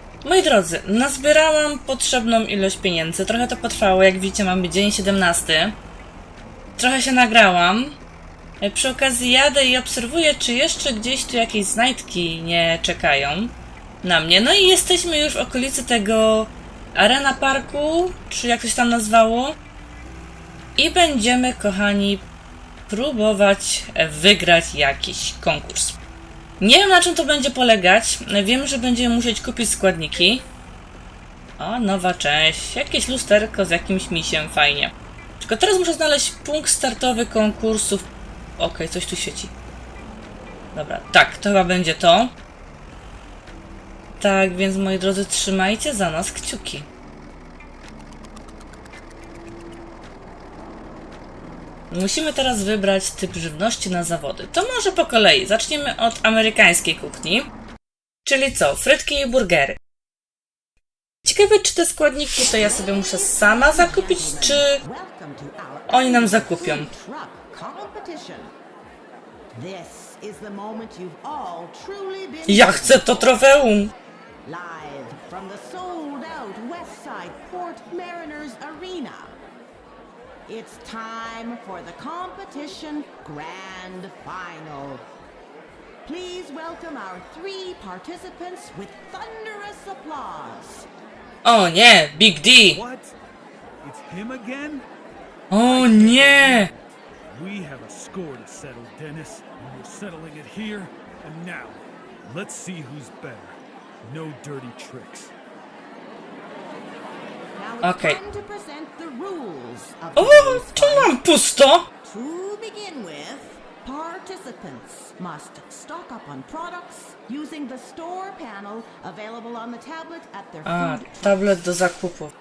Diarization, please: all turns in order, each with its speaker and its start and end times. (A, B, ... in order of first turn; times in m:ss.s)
0:00.2-0:05.8 A
0:06.8-0:08.0 A
0:08.6-0:19.6 A
0:20.8-0:22.2 A
0:22.9-0:26.0 A
0:26.6-0:30.4 A
0:31.6-0:39.5 A
0:40.7-0:42.3 A
0:44.2-0:46.9 A
0:51.9-0:57.5 A
0:58.2-0:59.8 A
1:01.2-1:04.8 A
1:02.4-1:08.5 B
1:05.9-1:06.9 A
1:09.5-1:13.3 B
1:12.5-1:13.9 A
1:14.4-1:19.4 B
1:20.5-1:25.1 B
1:26.0-1:30.9 B
1:31.4-1:32.8 A
1:32.7-1:33.1 C
1:33.8-1:34.8 C
1:35.5-1:36.7 A
1:35.6-1:45.3 C
1:47.6-1:51.1 B
1:47.8-1:48.2 A
1:50.2-1:51.8 A
1:52.0-2:01.5 B
2:00.6-2:02.3 A